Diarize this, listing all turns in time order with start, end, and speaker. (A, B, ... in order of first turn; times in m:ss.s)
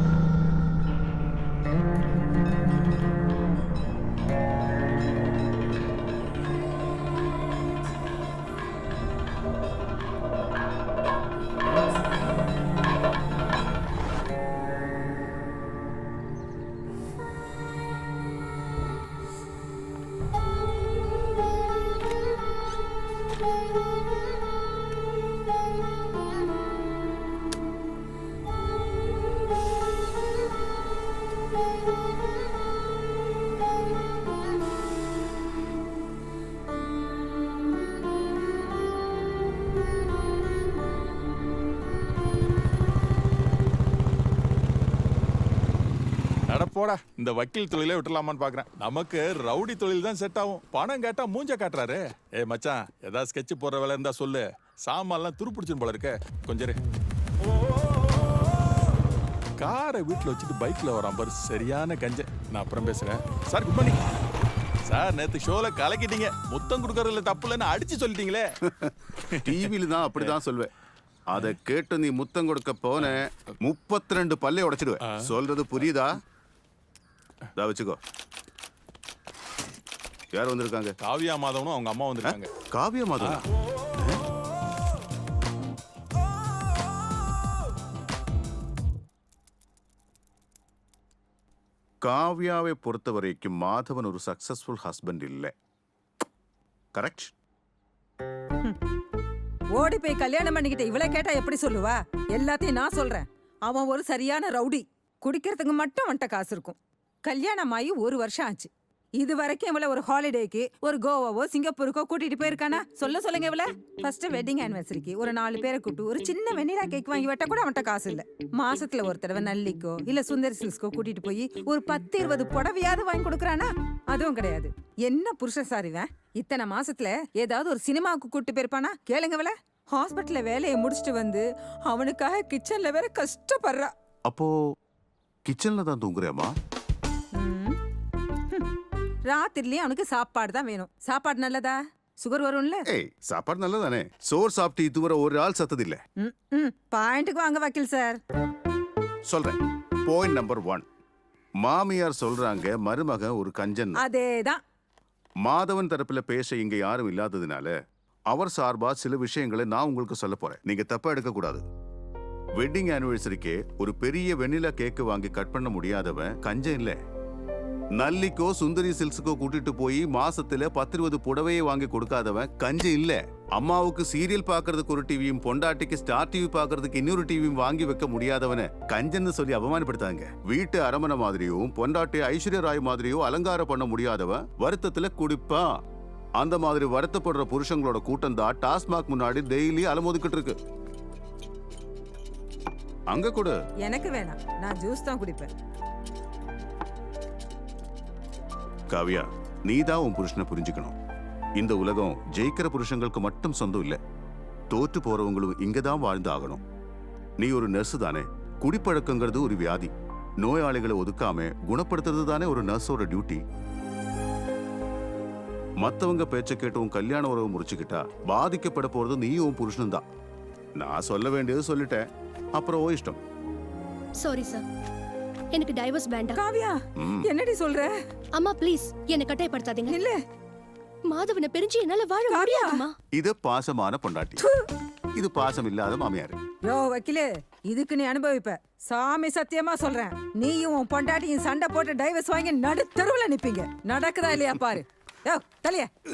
0:46.5-0:56.8 A
0:59.6-1:04.0 A
1:04.9-1:08.4 A
1:08.6-1:10.7 B
1:09.3-1:10.4 A
1:11.3-1:16.2 B
1:15.1-1:15.3 A
1:17.6-1:18.0 B
1:20.3-1:21.0 B
1:21.0-1:22.5 A
1:22.2-1:23.4 B
1:24.0-1:24.2 B
1:32.0-1:35.5 B
1:37.0-1:37.3 B
1:39.7-2:13.9 C
2:14.3-2:14.6 B
2:15.4-2:16.5 B
2:17.4-2:17.8 C
2:19.3-2:22.8 C
2:22.9-2:26.0 B
2:26.2-2:28.2 C
2:29.3-2:30.8 B
2:31.6-2:34.0 B
2:34.0-2:34.6 C
2:35.4-2:37.8 B
2:38.3-2:41.6 B
2:42.6-2:47.0 B
2:48.0-3:05.7 B
3:06.4-3:10.6 B
3:13.1-3:13.6 B
3:13.8-3:15.5 C
3:18.9-3:21.0 B
3:21.6-3:24.0 B
3:24.7-3:26.6 B
3:27.4-3:33.4 B
3:35.8-3:40.0 B
3:40.8-3:43.2 B
3:44.2-3:44.6 D
3:45.5-3:46.4 D
3:46.4-3:47.9 C
3:47.0-3:47.3 B
3:48.4-3:50.0 D
3:49.9-3:50.2 C
3:51.1-3:53.0 D
3:52.3-3:52.8 C
3:53.1-3:54.4 B
3:54.4-3:54.7 C
3:55.1-3:56.4 B
3:56.6-4:05.9 C